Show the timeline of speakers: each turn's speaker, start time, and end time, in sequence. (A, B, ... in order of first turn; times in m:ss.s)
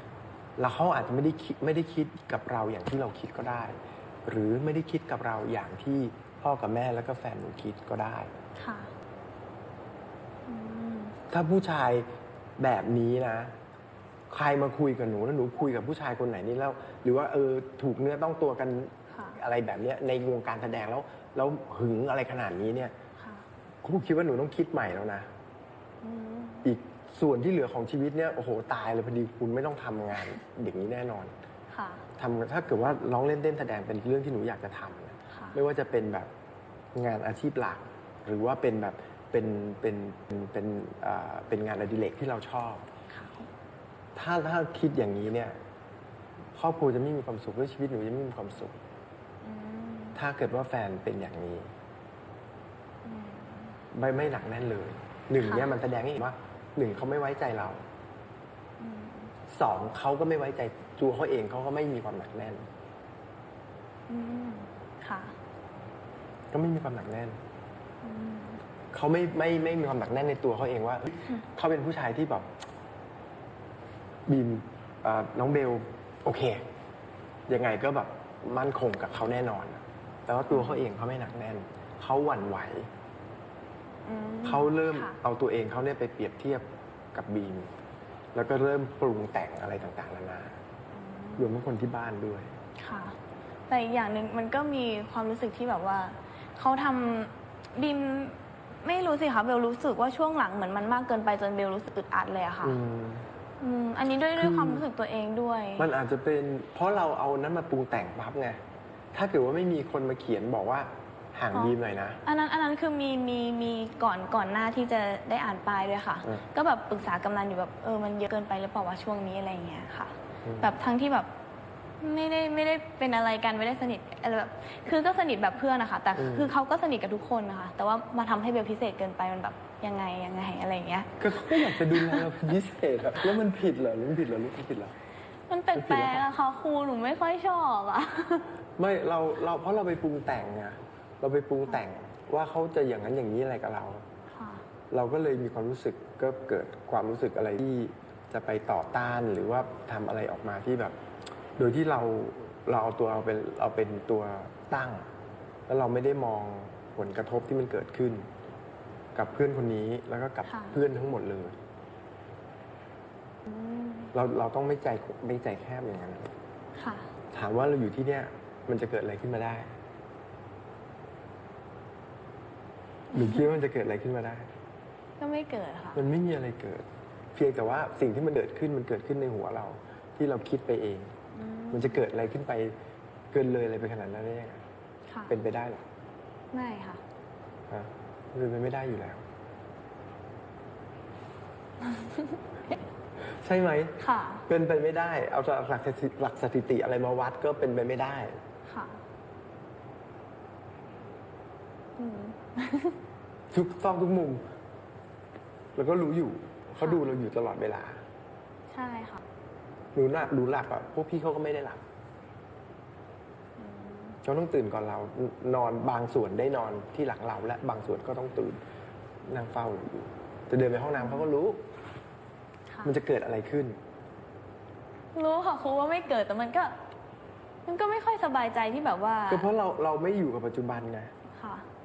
0:00.6-0:08.3 A
0:08.6-0:08.9 B
0:10.5-0:11.2 B
0:11.3-0:12.1 A
0:12.6-0:13.5 A
0:14.3-0:22.9 A
0:19.1-0:19.4 B
0:23.2-0:23.4 B
0:23.8-0:25.3 A
0:26.0-0:26.7 B
0:26.6-0:31.3 A
0:31.7-0:32.0 B
0:32.2-0:36.3 A
0:35.3-0:35.6 B
0:36.9-0:42.8 A
0:43.1-0:43.5 B
0:44.1-0:45.6 A
0:46.5-0:48.8 A
0:49.4-0:50.2 B
0:50.1-0:51.7 A
0:53.0-0:53.8 B
0:53.9-0:57.8 A
0:55.4-0:55.7 B
0:58.8-0:59.3 B
0:59.5-1:02.7 A
1:04.1-1:05.3 B
1:06.5-1:07.4 A
1:08.0-1:08.6 B
1:08.9-1:12.5 A
1:14.3-1:16.6 A
1:17.5-1:22.9 A
1:20.5-1:20.8 B
1:24.0-1:25.2 B
1:24.4-1:27.7 A
1:28.3-1:30.6 A
1:30.9-1:31.5 B
1:31.4-1:32.5 A
1:32.8-1:33.2 B
1:33.7-1:42.8 B
1:42.6-1:43.3 A
1:43.6-1:45.9 B
1:44.4-1:44.8 A
1:45.8-1:48.6 A
1:49.1-1:52.2 A
1:51.5-2:01.3 B
2:00.4-2:00.7 A
2:02.0-2:12.3 B
2:06.1-2:06.5 A
2:11.2-2:14.9 A
2:15.5-2:18.5 B
2:15.7-2:16.3 A
2:18.8-2:24.0 A
2:24.3-2:24.6 B
2:24.9-2:31.0 A
2:31.6-2:35.1 A
2:35.7-2:38.3 A
2:39.1-2:41.6 A
2:40.5-2:40.8 B
2:43.4-2:44.1 B
2:44.1-2:46.3 A
2:46.8-2:47.1 B
2:47.3-2:49.7 A
2:53.1-2:54.5 A
2:55.2-2:56.0 B
2:55.9-3:01.1 A
3:01.3-3:02.0 B
3:01.7-3:02.7 A
3:03.3-3:04.6 A
3:05.1-3:05.4 B
3:05.3-3:05.8 A
3:06.5-3:07.0 B
3:07.7-3:09.2 A
3:11.8-3:12.8 B
3:13.4-3:18.4 A
3:14.0-3:14.4 B
3:18.6-3:19.0 B
3:22.0-3:23.0 B
3:23.5-3:24.4 A
3:25.7-3:28.0 A
3:28.7-3:29.2 B
3:29.9-3:31.8 A
3:33.6-3:34.2 B
3:34.2-3:38.6 A
3:39.2-3:41.6 A
3:41.0-3:41.3 B
3:42.7-3:42.9 B
3:42.8-3:43.8 A
3:45.1-3:46.7 B
3:47.6-3:49.4 B
3:49.3-3:51.1 A
3:51.3-3:51.6 B